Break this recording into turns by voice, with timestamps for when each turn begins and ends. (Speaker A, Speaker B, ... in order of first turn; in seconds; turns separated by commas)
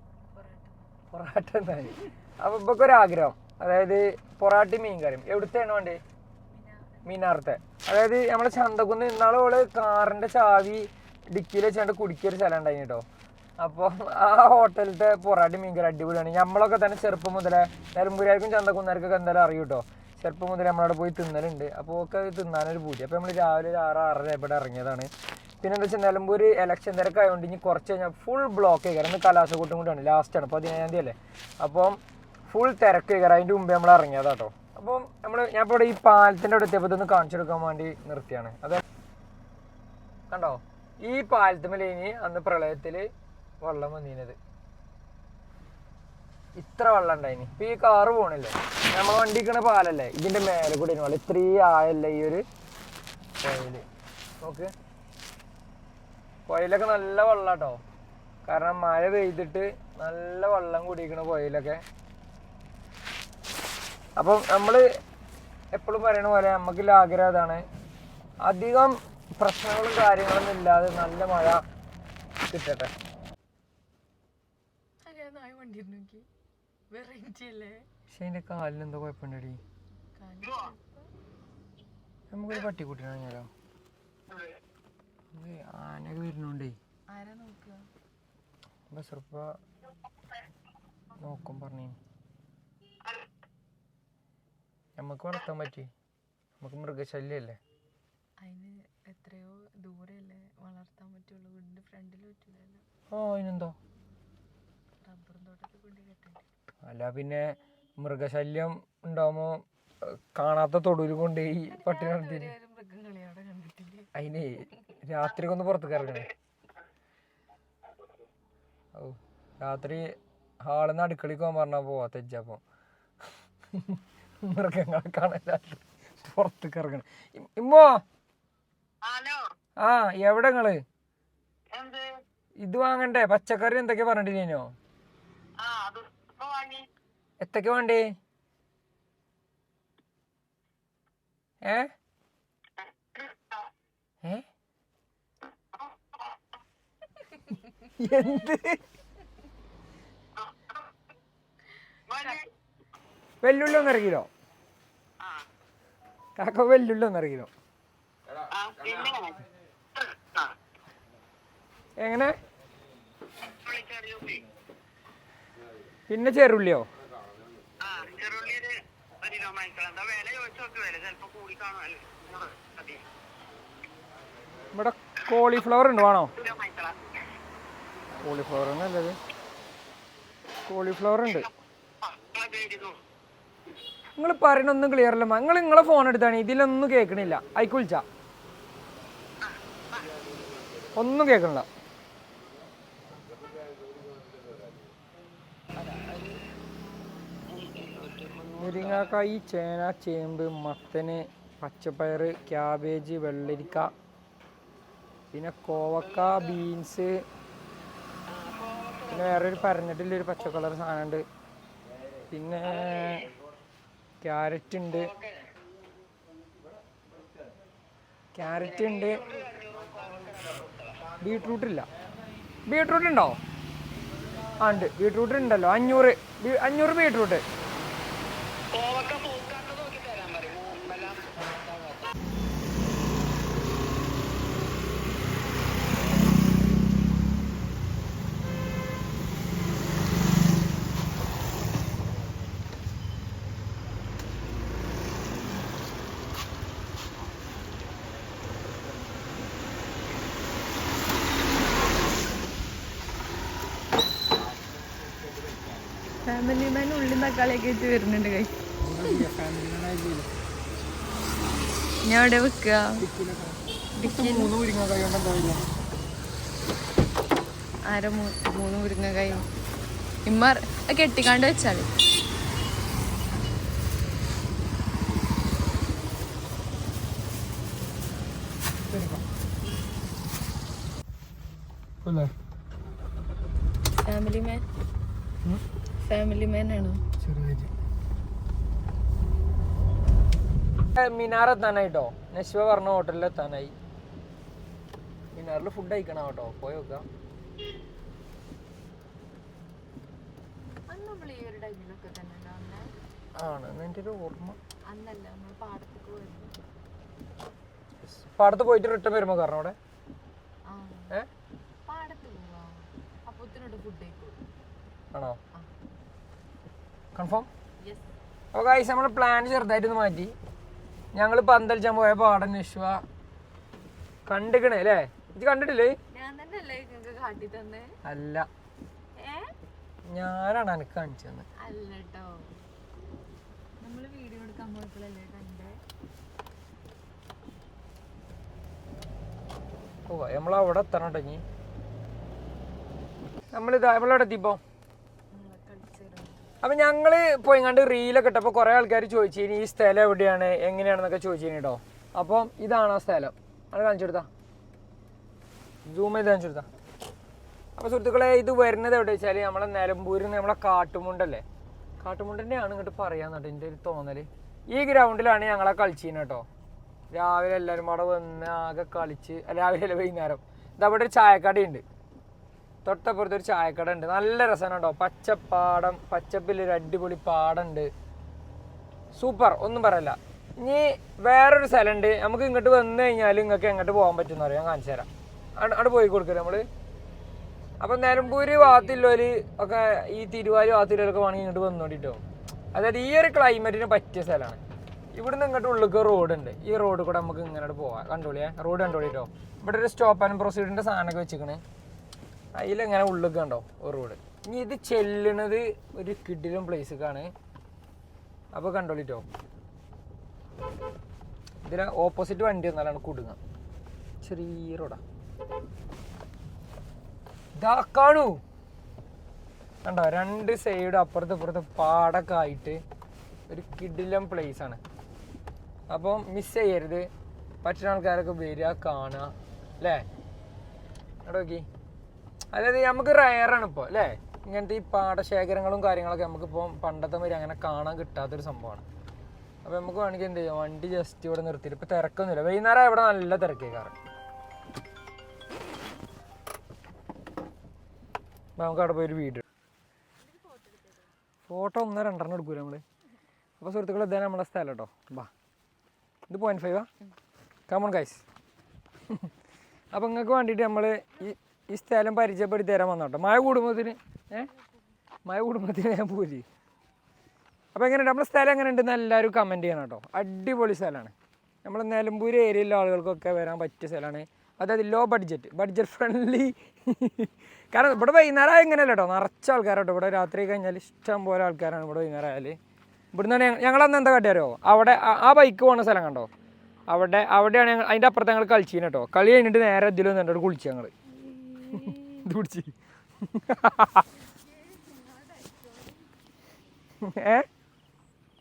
Speaker A: 0.3-0.9, Speaker B: 1.1-6.0, Speaker A: 6.5-7.3, Speaker B: 7.0-13.0, Speaker B: 13.6-25.1, Speaker B: 25.6-38.8, Speaker B: 40.3-43.1, Speaker B: 43.6-44.4, Speaker B: 46.5-52.5, Speaker B: 53.4-53.9, Speaker B: 54.4-54.7, Speaker B: 56.5-57.8, Speaker B: 58.5-61.8, Speaker B: 64.2-64.9, Speaker B: 65.7-67.6, Speaker B: 68.4-71.6, Speaker B: 72.5-72.9, Speaker A: 75.0-76.2, Speaker A: 76.9-77.9, Speaker B: 78.1-79.6, Speaker A: 80.1-81.1, Speaker B: 82.3-83.5, Speaker B: 85.3-86.8, Speaker A: 87.1-87.9, Speaker B: 88.9-89.6, Speaker B: 91.2-92.0, Speaker B: 95.0-95.9, Speaker B: 96.6-97.6, Speaker A: 98.4-102.8, Speaker B: 103.1-103.7, Speaker A: 105.0-106.4, Speaker B: 106.8-112.5, Speaker A: 111.6-114.1, Speaker B: 114.1-116.3, Speaker B: 118.9-122.6, Speaker B: 123.7-128.0, Speaker C: 129.0-129.5, Speaker B: 129.8-130.8, Speaker C: 131.7-132.1, Speaker B: 132.6-134.7, Speaker C: 135.6-136.8, Speaker B: 137.4-138.1, Speaker B: 141.6-141.9, Speaker C: 143.1-143.6, Speaker C: 145.7-146.3, Speaker B: 148.0-148.8, Speaker C: 150.4-150.7, Speaker C: 152.1-152.5, Speaker B: 153.4-154.3, Speaker C: 155.2-155.4, Speaker B: 156.4-157.5, Speaker C: 158.5-159.4, Speaker C: 159.9-160.5, Speaker B: 162.0-162.3, Speaker C: 163.6-164.4, Speaker B: 166.1-166.8, Speaker C: 167.8-173.0, Speaker B: 174.7-176.3, Speaker C: 176.3-177.0, Speaker B: 178.2-179.2, Speaker B: 180.7-181.5, Speaker C: 182.0-182.9, Speaker B: 184.2-188.0, Speaker C: 189.4-190.1, Speaker B: 190.9-191.7, Speaker C: 195.8-196.3, Speaker C: 197.4-199.1, Speaker B: 198.6-203.9, Speaker B: 205.3-207.2, Speaker C: 208.3-209.4, Speaker B: 209.1-211.2, Speaker B: 212.3-213.3, Speaker C: 212.8-213.1, Speaker B: 214.2-215.1, Speaker C: 214.9-215.3, Speaker B: 218.3-219.2, Speaker C: 218.6-221.1, Speaker B: 221.2-221.9, Speaker B: 222.7-223.4, Speaker B: 224.6-227.4, Speaker C: 228.7-231.6, Speaker A: 256.2-258.6, Speaker B: 258.8-260.3, Speaker A: 262.1-263.1, Speaker B: 263.0-265.6, Speaker A: 264.0-264.5, Speaker A: 267.9-269.4, Speaker A: 270.2-271.9, Speaker B: 278.9-279.2, Speaker B: 282.0-282.3, Speaker A: 283.9-284.6, Speaker A: 286.0-287.0, Speaker B: 287.2-287.7, Speaker B: 290.9-293.7, Speaker B: 295.3-297.1, Speaker A: 300.9-302.9, Speaker B: 303.4-304.6, Speaker A: 304.9-306.6, Speaker B: 308.0-309.8, Speaker A: 310.6-311.1, Speaker A: 311.9-314.4, Speaker B: 315.1-315.4, Speaker B: 317.1-317.5, Speaker A: 317.8-318.1, Speaker B: 318.5-320.3, Speaker B: 321.1-323.0, Speaker B: 324.3-326.0, Speaker A: 326.1-327.9, Speaker B: 328.1-328.4, Speaker A: 329.1-329.6, Speaker B: 330.1-331.4, Speaker A: 331.6-332.6, Speaker A: 333.8-335.8, Speaker B: 340.1-341.4, Speaker B: 343.5-344.6, Speaker A: 345.3-346.5, Speaker B: 346.6-354.3, Speaker B: 355.9-356.7, Speaker B: 357.8-361.4, Speaker B: 362.0-366.4, Speaker B: 367.1-371.8, Speaker B: 372.8-377.9, Speaker B: 379.1-386.7, Speaker B: 387.8-392.2, Speaker A: 388.0-389.2, Speaker B: 392.7-394.6, Speaker B: 395.1-401.6, Speaker B: 402.5-407.3, Speaker B: 408.5-409.2, Speaker B: 411.6-413.4, Speaker B: 414.2-415.0, Speaker B: 417.6-418.4, Speaker B: 419.8-422.8, Speaker B: 423.5-424.8, Speaker B: 425.9-427.1, Speaker B: 427.6-430.1, Speaker B: 431.2-431.6, Speaker B: 432.5-438.8, Speaker B: 439.6-443.9, Speaker B: 448.6-449.4, Speaker A: 450.2-451.2, Speaker B: 451.5-452.8, Speaker B: 453.6-455.3, Speaker B: 456.3-456.9, Speaker B: 457.7-458.2, Speaker B: 459.9-464.5, Speaker B: 465.2-466.4, Speaker B: 467.8-471.1, Speaker B: 471.6-482.6, Speaker B: 483.1-486.3, Speaker B: 486.9-490.9, Speaker A: 491.1-492.3, Speaker B: 491.7-494.1, Speaker A: 493.9-496.2, Speaker B: 497.0-497.5